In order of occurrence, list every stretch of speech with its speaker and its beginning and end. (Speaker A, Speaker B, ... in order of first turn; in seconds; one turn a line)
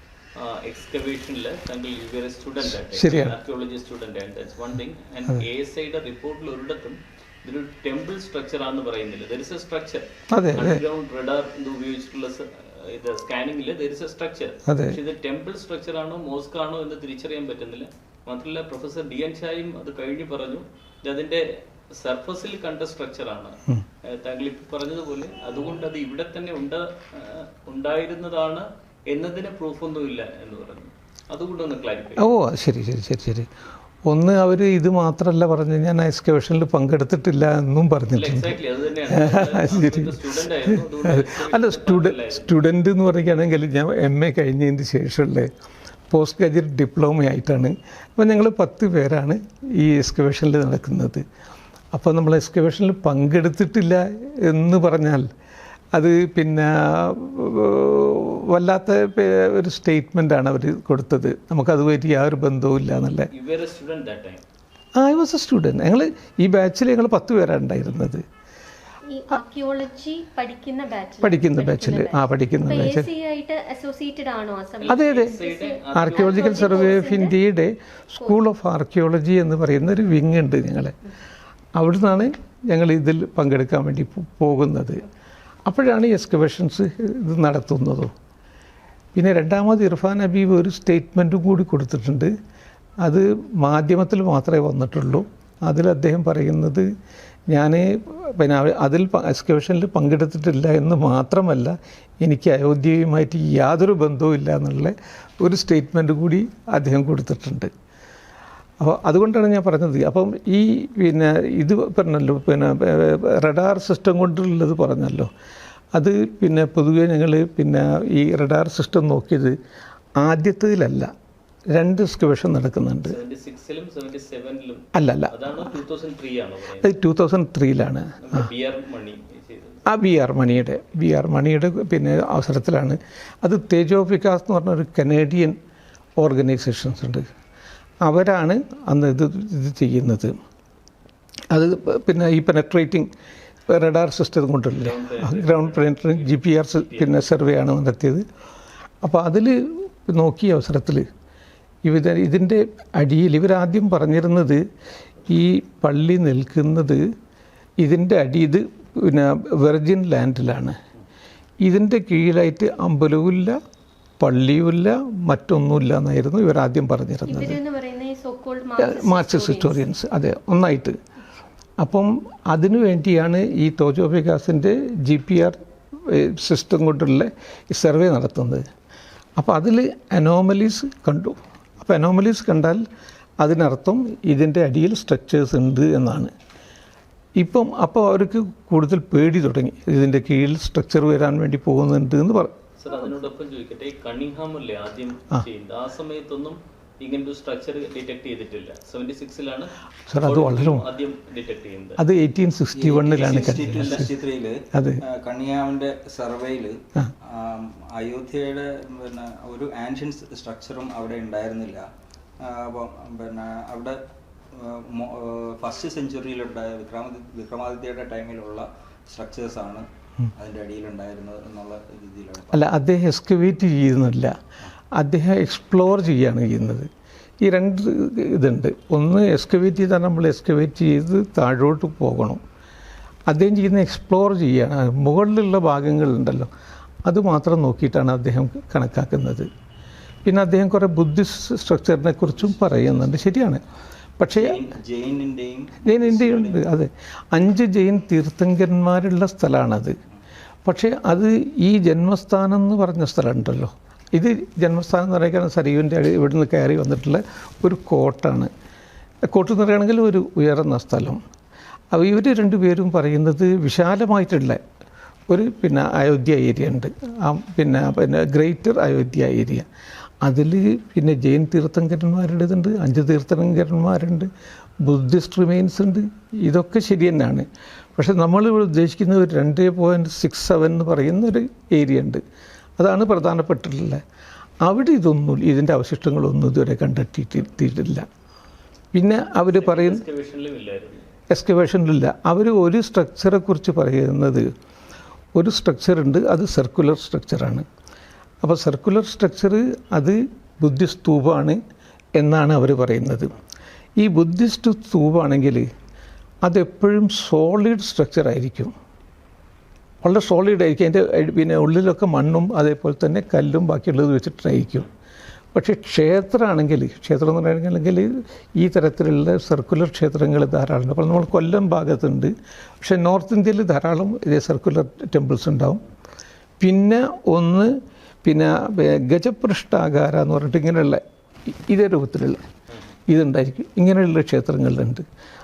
Speaker A: 0.4-32.3
Speaker B: 2.8-3.4
Speaker B: 10.3-10.8
Speaker B: 14.7-15.0
Speaker B: 32.2-33.5
Speaker B: 34.1-45.5
Speaker A: 38.1-42.6
Speaker B: 46.1-51.2
Speaker B: 51.9-55.3
Speaker B: 55.9-63.3
Speaker A: 63.3-64.4
Speaker B: 65.0-68.2
Speaker C: 69.1-77.4
Speaker B: 71.2-73.1
Speaker A: 74.8-77.0
Speaker B: 74.9-81.0
Speaker B: 81.8-85.0
Speaker B: 85.7-88.1
Speaker B: 89.2-92.3
Speaker B: 93.0-96.9
Speaker B: 97.5-107.7
Speaker B: 108.8-115.3
Speaker B: 115.9-119.6
Speaker B: 120.2-121.1
Speaker B: 121.7-123.2
Speaker A: 123.0-126.9
Speaker B: 124.9-125.7
Speaker B: 126.8-128.5
Speaker A: 128.2-129.9
Speaker B: 129.9-135.6
Speaker B: 136.2-137.3
Speaker B: 138.0-140.4
Speaker B: 141.5-143.1
Speaker B: 143.7-148.2
Speaker A: 144.7-147.4
Speaker B: 149.0-151.1
Speaker B: 151.8-154.6
Speaker B: 155.3-157.0
Speaker B: 157.8-160.8
Speaker B: 161.6-163.6
Speaker B: 164.2-167.6
Speaker C: 167.3-169.8
Speaker B: 168.8-171.0
Speaker B: 171.8-178.6
Speaker B: 179.4-182.8
Speaker B: 183.4-186.3
Speaker B: 187.4-192.5
Speaker A: 192.8-202.0
Speaker B: 200.1-200.9
Speaker B: 202.0-204.1
Speaker D: 202.7-211.9
Speaker A: 203.1-204.1
Speaker B: 204.7-205.0
Speaker D: 212.4-214.0
Speaker D: 214.5-222.7
Speaker B: 222.5-224.4
Speaker B: 224.9-226.9
Speaker B: 227.4-232.4
Speaker B: 233.3-236.5
Speaker B: 237.1-239.5
Speaker B: 240.2-243.6
Speaker D: 242.5-243.1
Speaker B: 244.2-244.6
Speaker D: 244.2-246.6
Speaker B: 245.8-250.0
Speaker B: 250.7-258.5
Speaker B: 259.3-261.2
Speaker B: 261.9-264.6
Speaker B: 265.3-269.7
Speaker B: 270.2-274.3
Speaker B: 274.8-282.2
Speaker B: 282.8-284.0
Speaker B: 284.6-288.1
Speaker B: 288.9-290.0
Speaker A: 289.5-291.1
Speaker B: 291.3-294.5
Speaker B: 295.4-297.7
Speaker B: 298.4-301.6
Speaker B: 302.2-303.3
Speaker B: 304.0-305.7
Speaker B: 306.4-308.7
Speaker B: 310.0-314.9
Speaker B: 315.5-325.8
Speaker B: 326.6-332.4
Speaker B: 333.1-335.1